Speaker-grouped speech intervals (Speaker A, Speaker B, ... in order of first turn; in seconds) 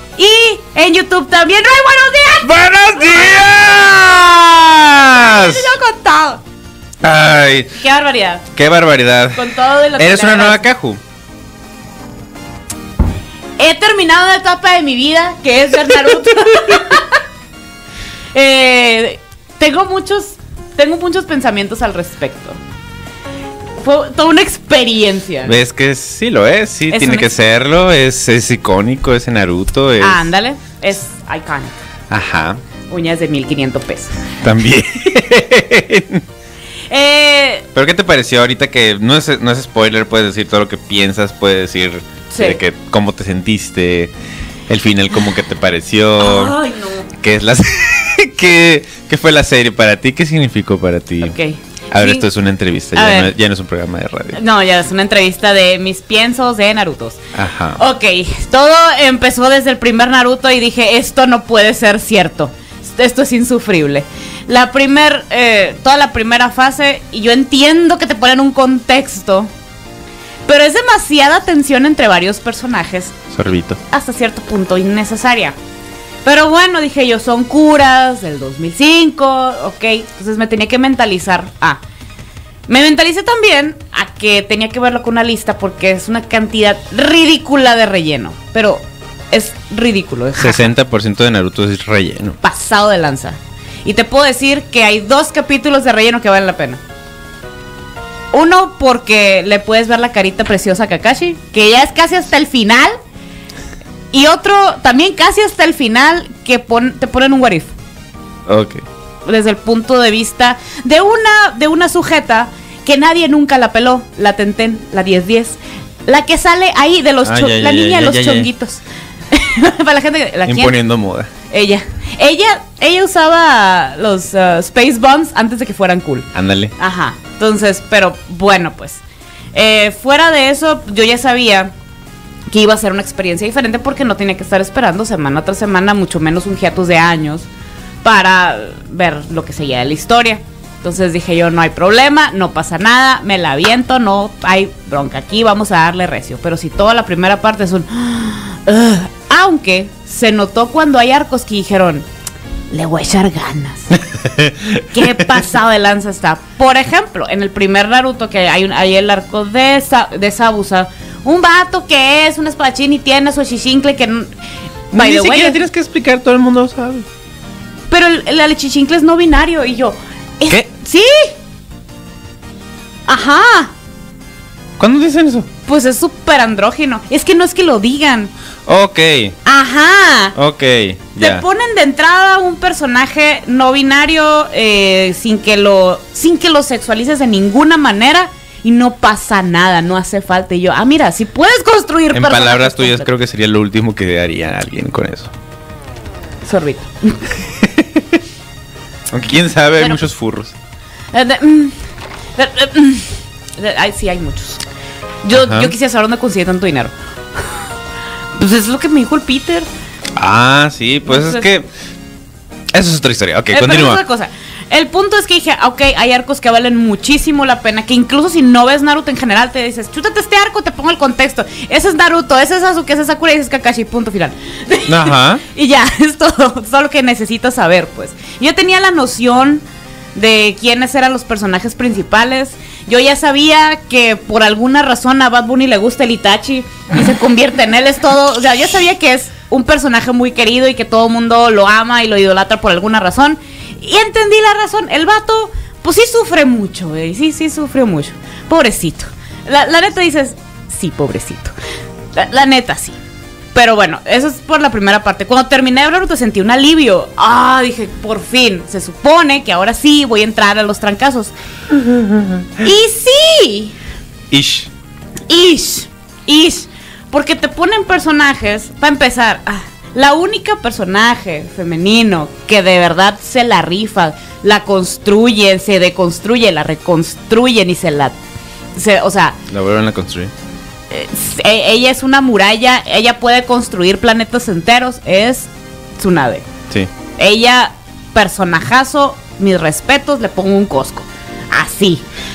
Speaker A: 0.2-2.5, 5.1-6.4, 7.8-8.4, 9.3-10.6, 13.6-17.2, 18.3-22.6, 23.8-25.6, 26.9-27.3, 30.0-31.7, 32.9-34.2, 36.9-37.6, 42.3-42.6, 46.2-47.1, 51.2-52.3, 52.9-53.3, 54.3-57.2, 57.8-69.5, 70.5-73.2, 73.9-75.5, 76.2-81.8, 82.7-90.7, 92.4-96.8, 98.3-103.0, 104.1-107.7, 109.2-118.8, 119.3-120.8, 121.5-129.0, 129.5-131.7, 132.5-137.5, 138.0-152.1, 152.7-154.0, 154.9-164.3, 164.9-165.6, 167.9-171.3, 173.1-173.7, 175.7-178.3, 179.4-180.3, 181.2-193.1, 196.4-197.4, 201.1-201.8, 202.4-204.6, 205.2-207.6, 208.3-209.7, 211.0-211.5, 213.5-229.6, 230.1-251.5, 252.1-253.0, 253.5-261.3, 262.6-263.7, 265.3-278.1, 278.8-279.4, 280.9-286.4, 287.2-292.1
Speaker B: 2.4-5.7, 7.0-7.7, 8.5-11.0, 25.4-30.3, 32.1-32.6, 34.4-36.2, 37.7-44.1, 44.7-46.6, 47.2-51.3, 51.9-54.4, 57.3-57.8, 73.3-73.8, 90.4-92.4, 108.5-108.8, 117.2-118.5, 120.5-121.3, 126.3-126.7, 154.2-154.8, 164.9-167.0, 174.8-175.5, 178.7-179.4, 180.3-181.4, 192.1-195.3, 197.6-198.0, 199.1-200.5, 205.3-205.7, 210.2-211.7, 212.7-214.0, 224.9-225.4, 262.0-262.3, 264.3-264.7, 279.5-280.3